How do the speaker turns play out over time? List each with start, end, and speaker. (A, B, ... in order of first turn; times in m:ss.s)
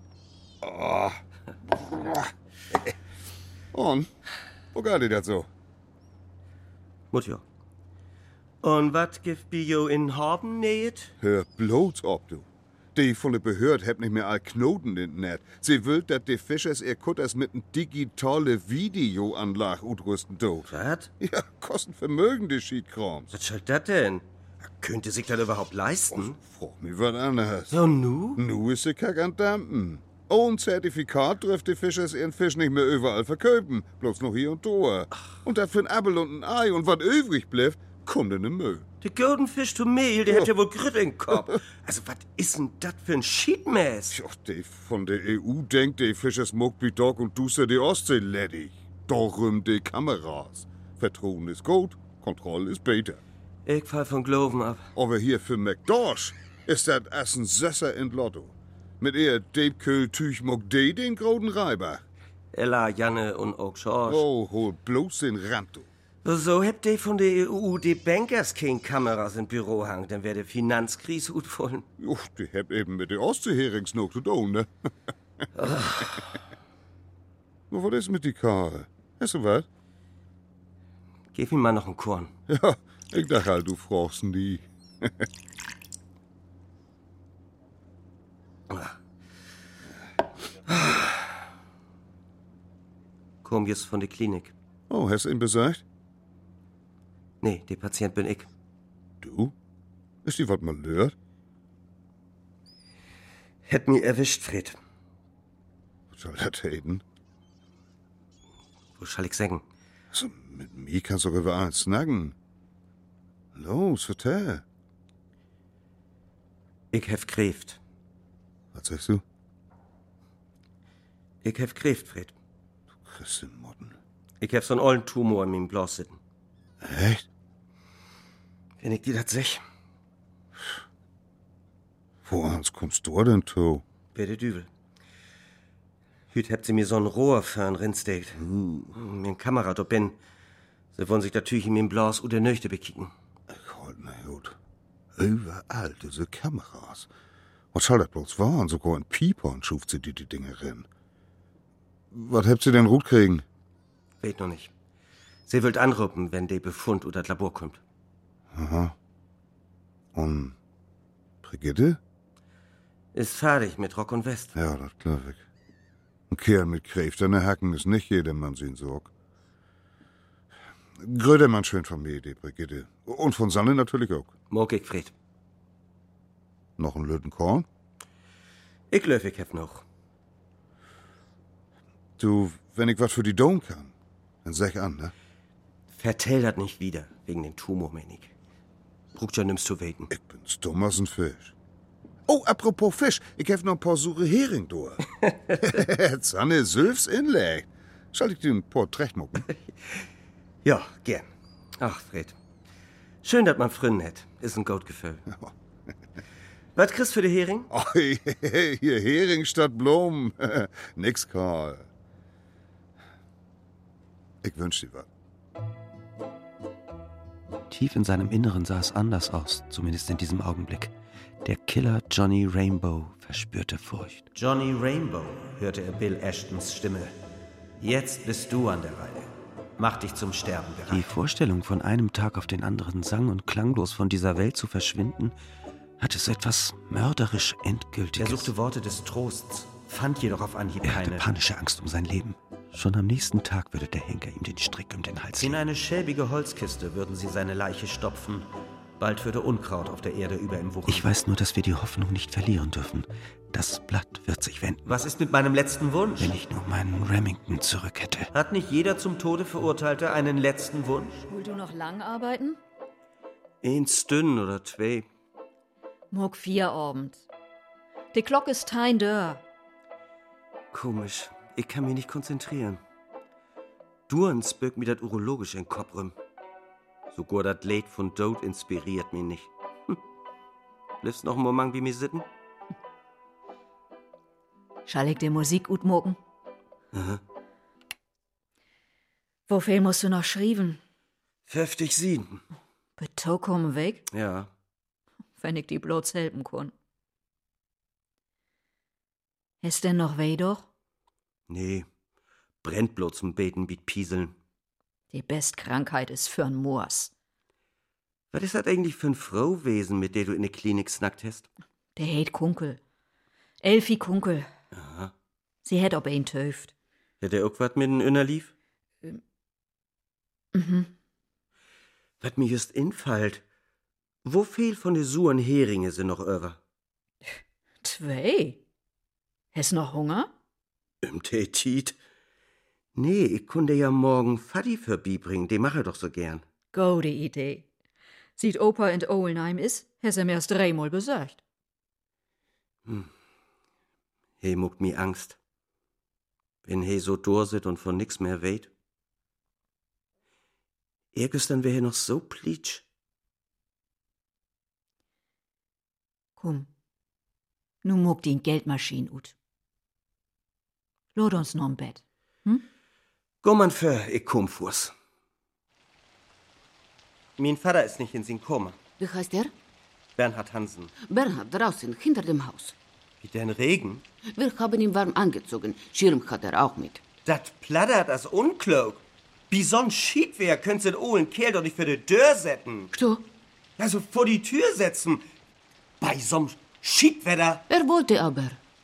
0:00.6-0:01.2 A
0:01.8-0:02.3 A
0:03.7-0:04.1 A
0:04.7-0:05.5 A
0:07.1-0:07.4 B
0:08.6-0:11.1 B
0:11.2-0:23.3 A
0:20.7-0:21.1 B
0:23.3-0:26.4 B
0:26.1-0:27.8 A
0:27.7-0:28.4 B
0:28.4-0:38.8 A
0:39.0-0:44.2 B
0:44.1-0:53.2 A
0:53.6-0:54.8 B
0:55.0-1:02.0 A
1:02.5-1:04.2 B
1:04.1-1:05.9 A
1:06.2-1:11.9 B
1:12.0-1:14.7 A
1:15.6-1:16.4 B
1:17.7-1:19.7 A
1:21.3-1:22.3 B
1:22.5-1:25.2 A
1:28.7-1:29.0 B
1:30.7-1:31.3 B
1:33.4-1:34.5 B
1:34.9-1:35.8 A
1:37.4-1:38.5 B
1:39.2-1:39.5 A
1:40.2-1:41.1 A
1:43.6-1:44.8 B
1:46.1-1:47.0 A
1:49.0-1:49.6 B
1:50.1-1:52.4 A
1:53.5-1:54.6 A
1:56.9-1:57.8 B
1:58.7-1:59.2 A
2:01.4-2:02.3 B
2:03.0-2:04.0 A
2:04.4-2:06.2 B
2:06.8-2:07.2 A
2:08.8-2:09.6 B
2:12.2-2:13.8 A
2:14.1-2:14.7 B
2:16.3-2:18.4 B
2:18.4-2:18.9 A
2:18.9-2:20.2 B
2:20.9-2:23.1 B
2:23.5-2:24.6 A
2:25.2-2:27.1 A
2:27.7-2:30.9 A
2:32.1-2:33.4 A
2:34.2-2:34.7 B
2:35.5-2:37.8 B
2:38.5-2:38.9 A
2:40.1-2:40.6 A
2:41.4-2:42.0 A
2:43.1-2:44.5 B
2:44.6-2:45.4 A
2:46.3-2:49.1 A
2:51.0-2:54.3 A
2:54.5-2:55.1 B
2:56.8-2:57.6 A
2:58.9-2:59.8 B
3:02.2-3:03.9 A
3:04.4-3:05.1 A
3:05.9-3:08.3 B
3:09.1-3:10.1 B
3:10.1-3:11.5 A
3:12.3-3:15.0 A
3:15.2-3:15.6 B
3:15.6-3:19.5 A
3:20.6-3:21.3 B
3:21.8-3:22.4 B
3:23.2-3:25.2 B
3:26.8-3:27.7 B
3:27.7-3:31.9 A
3:34.4-3:35.1 A
3:37.7-3:40.9 C
3:41.4-3:44.3 C
3:44.3-3:47.1 B
3:47.8-3:51.0 B
3:50.9-3:55.3 C
3:56.0-3:58.5 C
3:58.2-4:01.2 B
4:00.8-4:05.6 C
4:05.4-4:08.5 B
4:09.0-4:11.1 B
4:10.9-4:14.8 C
4:14.8-4:16.3 B
4:16.2-4:18.3 C
4:18.3-4:21.2 B
4:21.3-4:22.6 D
4:23.6-4:25.1 B
4:26.1-4:27.2 D
4:28.1-4:29.4 D
4:30.7-4:32.8 B
4:34.1-4:36.1 B
4:37.1-4:40.0 B
4:41.0-4:42.2 B
4:44.9-4:46.2 D
4:46.9-4:47.2 B
4:49.5-4:50.8 D
4:51.5-4:52.4 B
4:53.0-4:54.1 D
4:54.1-4:54.5 B
4:55.4-4:56.7 D
4:59.6-5:00.6 D
5:01.5-5:01.9 B
5:02.6-5:04.4 B
5:05.1-5:07.1 D
5:08.3-5:11.5 B
5:12.0-5:12.8 D
5:13.6-5:14.5 D
5:14.7-5:15.1 B
5:15.6-5:16.7 D
5:17.2-5:18.5 B
5:20.5-5:20.9 D
5:22.2-5:23.4 B
5:24.2-5:26.6 B
5:27.8-5:28.6 D
5:29.5-5:30.3 D
5:31.0-5:32.0 B
5:33.0-5:36.4 B
5:36.7-5:37.6 D
5:38.4-5:41.4 D
5:44.4-5:45.4 B
5:46.6-5:48.7 B
5:51.1-5:52.8 B
5:56.4-5:56.7 D
5:57.8-5:59.3 D
6:01.1-6:02.6 D
6:03.4-6:04.9 B
6:07.4-6:08.8 B
6:09.0-6:09.5 E
6:10.2-6:10.9 B
6:11.0-6:12.8 E
6:13.2-6:14.0 B
6:14.3-6:17.0 E
6:17.2-6:22.9 B
6:22.9-6:23.2 E
6:23.8-6:25.2 B
6:26.0-6:27.6 B
6:27.7-6:28.6 E